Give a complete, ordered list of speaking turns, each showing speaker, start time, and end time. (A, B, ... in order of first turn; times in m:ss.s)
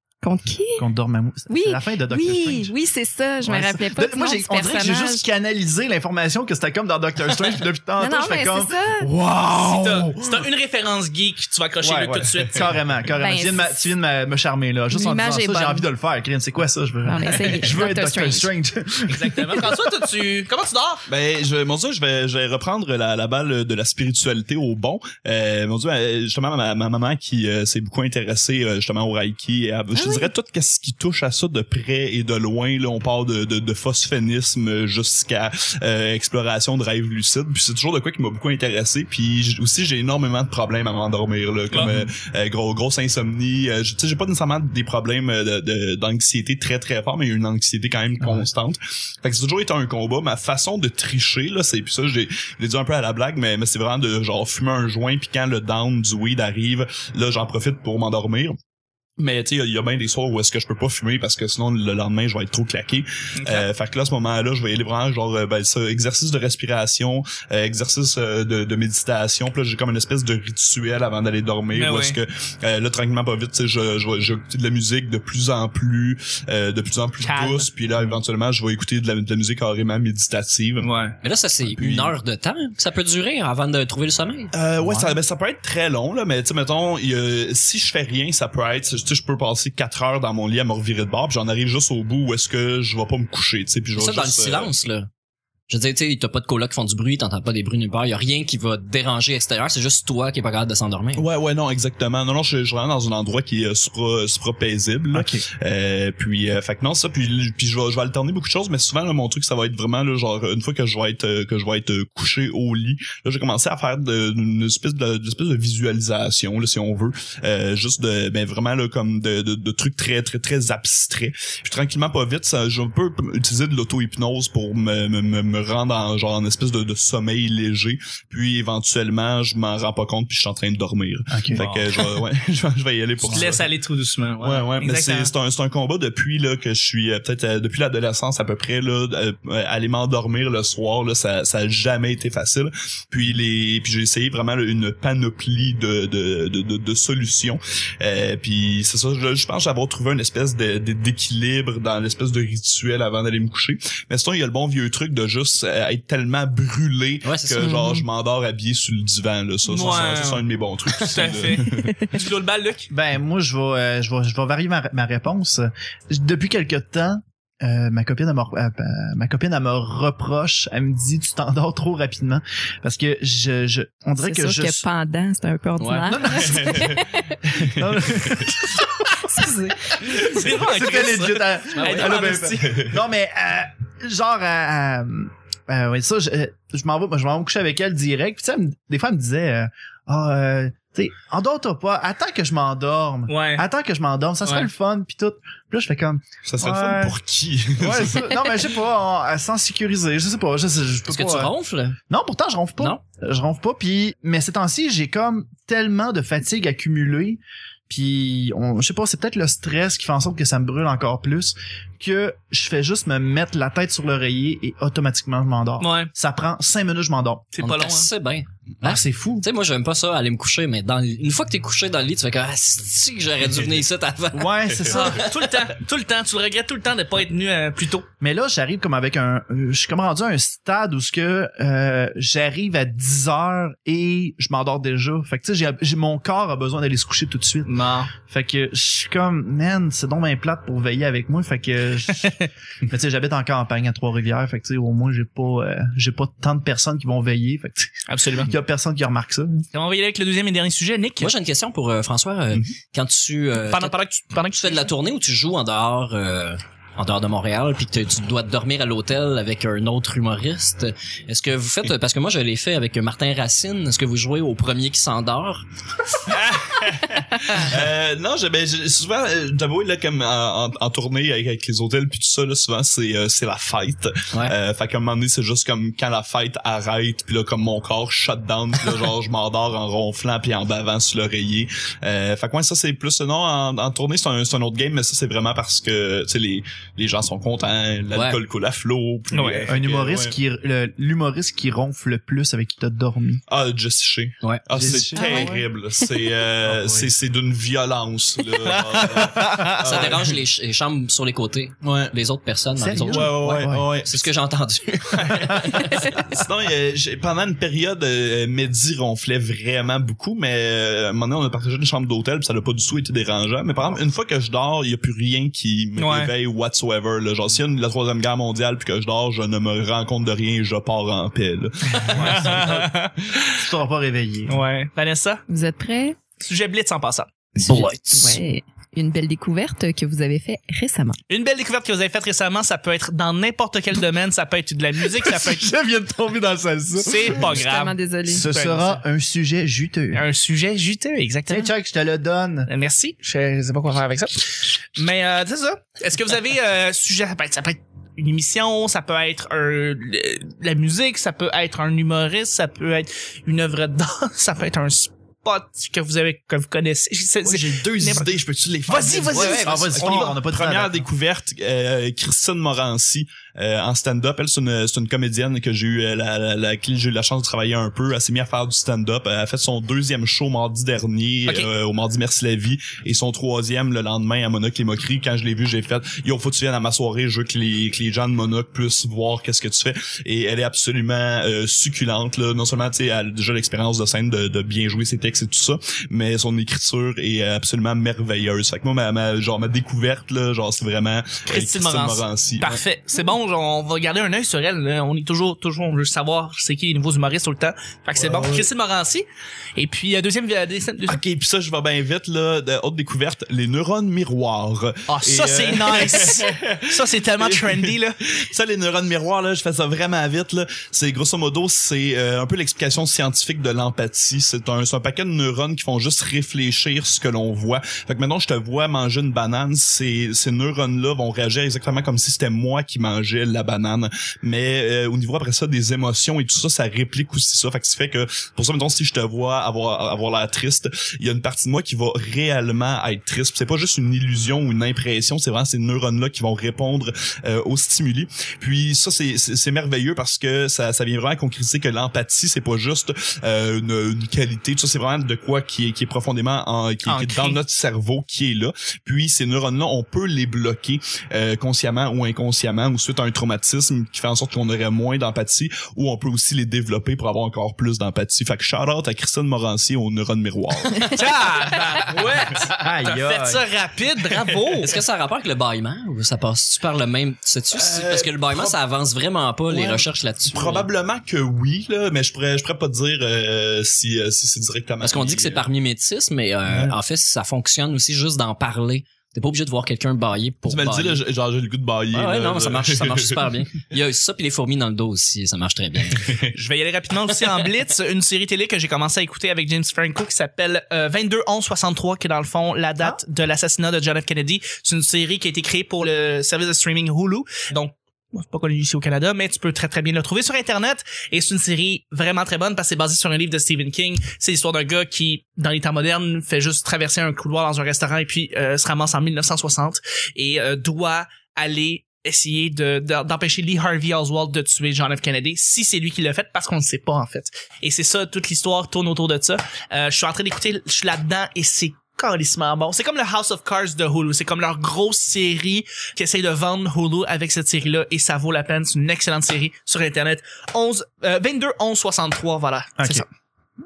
0:00.2-0:00.8 A
0:00.8-0:02.7 B
0:01.5-0:05.2 A
0:03.4-0:10.5 B
0:08.0-0:09.1 A
0:09.6-0:12.8 C
0:11.8-0:19.9 B
0:13.2-0:13.9 A
0:14.9-0:15.9 A
0:17.0-0:18.5 A
0:19.1-0:21.0 C
0:21.1-0:58.6 D
0:29.9-0:30.3 A
0:41.8-0:42.1 B
0:48.2-0:48.5 B
0:59.2-1:20.9 D
1:03.4-1:03.7 C
1:11.7-1:12.2 C
1:17.2-1:17.7 C
1:20.8-1:21.2 C
1:21.2-1:24.5 E
1:21.6-1:22.1 D
1:24.5-1:34.7 D
1:24.8-1:25.2 B
1:34.0-1:35.1 E
1:35.7-1:41.3 E
1:41.2-2:13.7 D
1:45.1-1:45.5 B
2:11.3-2:11.6 B
2:11.5-2:11.9 C
2:13.2-2:15.3 C
2:14.4-2:42.1 D
2:37.2-2:37.9 E
2:37.6-2:38.0 A
2:39.7-2:42.9 C
2:41.9-2:42.2 A
2:42.9-2:54.8 B
2:54.2-2:57.4 A
2:55.8-2:56.3 E
2:56.1-2:57.0 B
2:56.5-2:56.9 D
2:57.5-2:58.5 D
2:57.5-2:59.4 B
2:59.2-3:00.3 A
3:00.0-3:02.8 C
3:00.2-3:17.2 B
3:01.8-3:02.3 E
3:02.6-3:03.0 D
3:13.3-3:13.7 C
3:16.5-3:18.3 D
3:17.8-3:21.5 B
3:21.1-3:22.0 E
3:22.1-3:37.5 B
3:35.8-3:36.1 C
3:37.5-3:38.1 C
3:37.6-3:45.0 E
3:38.8-3:39.5 B
3:44.3-3:45.3 B
3:44.9-3:48.1 C
3:48.2-4:09.7 B
3:57.6-3:58.1 C
4:02.2-4:02.5 C
4:08.1-4:08.5 C
4:09.7-4:11.3 C
4:11.2-4:14.0 E
4:13.6-4:14.9 C
4:14.5-4:25.6 E
4:26.3-4:50.4 D
4:48.1-4:48.4 E
4:49.3-4:49.7 C
4:49.7-4:53.4 B
4:53.5-5:00.4 D
4:54.4-4:55.0 E
4:54.7-4:55.6 B
4:55.2-4:55.6 A
4:56.6-4:57.1 B
4:59.1-4:59.8 B
4:59.3-5:06.2 E
5:01.8-5:02.1 D
5:02.8-5:03.9 B
5:03.1-5:04.2 D
5:05.1-5:22.9 D
5:16.0-5:16.3 C
5:22.0-5:23.4 C
5:22.1-5:22.8 B
5:23.5-5:24.6 B
5:24.5-5:25.4 C
5:25.5-5:26.2 A
5:26.4-5:27.3 C
5:27.6-5:28.4 E
5:27.6-5:31.2 A
5:31.3-5:35.7 C
5:35.1-5:37.6 B
5:37.0-5:39.0 C
5:37.4-5:38.5 A
5:38.3-5:40.2 B
5:40.1-5:41.7 C
5:41.5-5:42.7 B
5:42.7-5:58.3 C
5:57.5-6:32.8 D
5:58.9-6:00.4 C
5:59.3-6:01.1 B
6:31.5-6:41.2 C
6:38.2-6:38.7 D
6:41.1-7:41.2 D
6:45.1-6:48.2 C
7:27.0-7:27.6 C
7:41.0-7:45.0 C
7:42.6-7:43.7 B
7:44.8-7:50.9 E
7:47.7-7:48.8 D
7:49.7-7:55.6 D
7:55.0-8:01.2 E
8:00.7-8:03.4 D
8:02.1-8:06.4 E
8:06.2-8:06.5 D
8:06.5-8:53.3 C
8:53.0-8:53.2 B